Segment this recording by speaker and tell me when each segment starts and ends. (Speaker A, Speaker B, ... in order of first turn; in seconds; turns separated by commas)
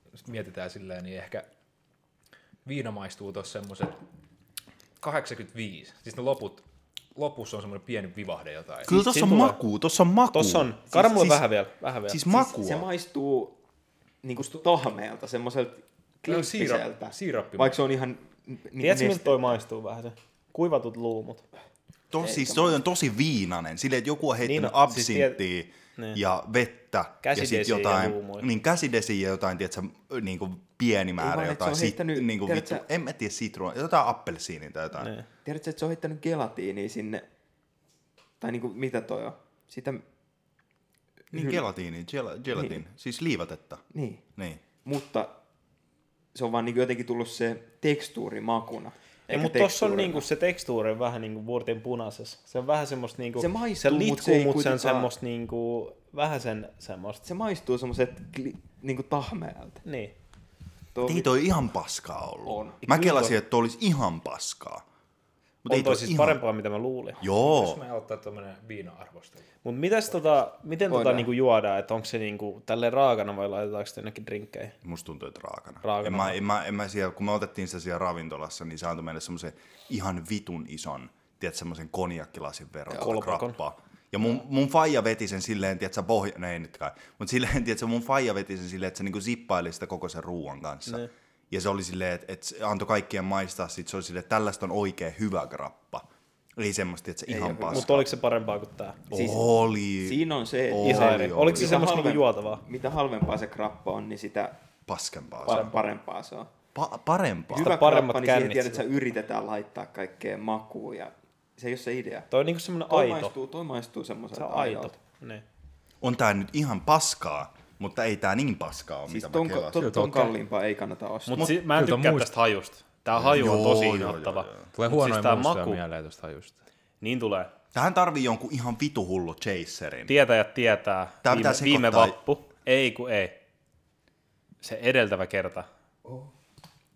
Speaker A: 0.2-1.5, Speaker A: 2.6-4.0, Speaker A: 5.0-6.6, Speaker A: 7.2-8.9, Speaker B: 8.8-11.4, Speaker C: 8.9-9.6, Speaker C: 10.3-12.2, Speaker B: 12.1-12.9, Speaker D: 12.3-13.6, Speaker D: 14.2-19.5, Speaker A: 14.4-14.6, Speaker A: 16.2-17.8, Speaker C: 18.8-21.4, Speaker B: 22.1-35.1, Speaker D: 22.2-22.8, Speaker C: 24.4-25.4, Speaker C: 27.2-28.5, Speaker D: 31.2-32.8, Speaker C: 35.0-35.2, Speaker D: 35.4-37.2, Speaker D: 38.4-40.0, Speaker D: 41.3-41.6, Speaker B: 41.3-43.8, Speaker D: 43.9-44.2, Speaker B: 44.4-44.6, Speaker D: 44.8-45.3, Speaker D: 46.3-50.2, Speaker C: 49.3-57.2, Speaker D: 53.4-55.1, Speaker D: 57.2-59.8, Speaker C: 59.8-60.1, Speaker D: 60.9-61.3, Speaker B: 61.0-64.8, Speaker D: 62.4-62.8, Speaker C: 62.8-63.4, Speaker B: 65.6-66.4, Speaker C: 65.7-67.2, Speaker B: 67.2-67.8, Speaker A: 67.4-69.5, Speaker C: 69.6-74.8, Speaker D: 70.9-71.3, Speaker B: 74.8-98.0, Speaker C: 75.8-76.4, Speaker C: 82.9-83.6, Speaker D: 97.3-97.9, Speaker C: 97.7-99.0, Speaker B: 99.1-101.9, Speaker D: 99.1-104.6, Speaker C: 100.8-102.6, Speaker B: 104.9-105.7, Speaker D: 105.4-106.5, Speaker C: 105.5-105.7, Speaker B: 106.7-107.8, Speaker D: 107.5-112.3, Speaker C: 107.5-108.8, Speaker C: 112.3-113.3, Speaker D: 112.9-114.9, Speaker C: 114.3-115.4, Speaker B: 116.0-119.9, Speaker D: 119.1-121.5, Speaker A: 119.8-120.4, Speaker C: 121.3-125.8, Speaker A: 121.7-122.3, Speaker B: 123.1-124.7, Speaker A: 124.7-126.6, Speaker C: 127.0-127.5, Speaker B: 127.7-130.2, Speaker C: 130.1-133.4, Speaker B: 131.2-132.2, Speaker C: 134.6-135.7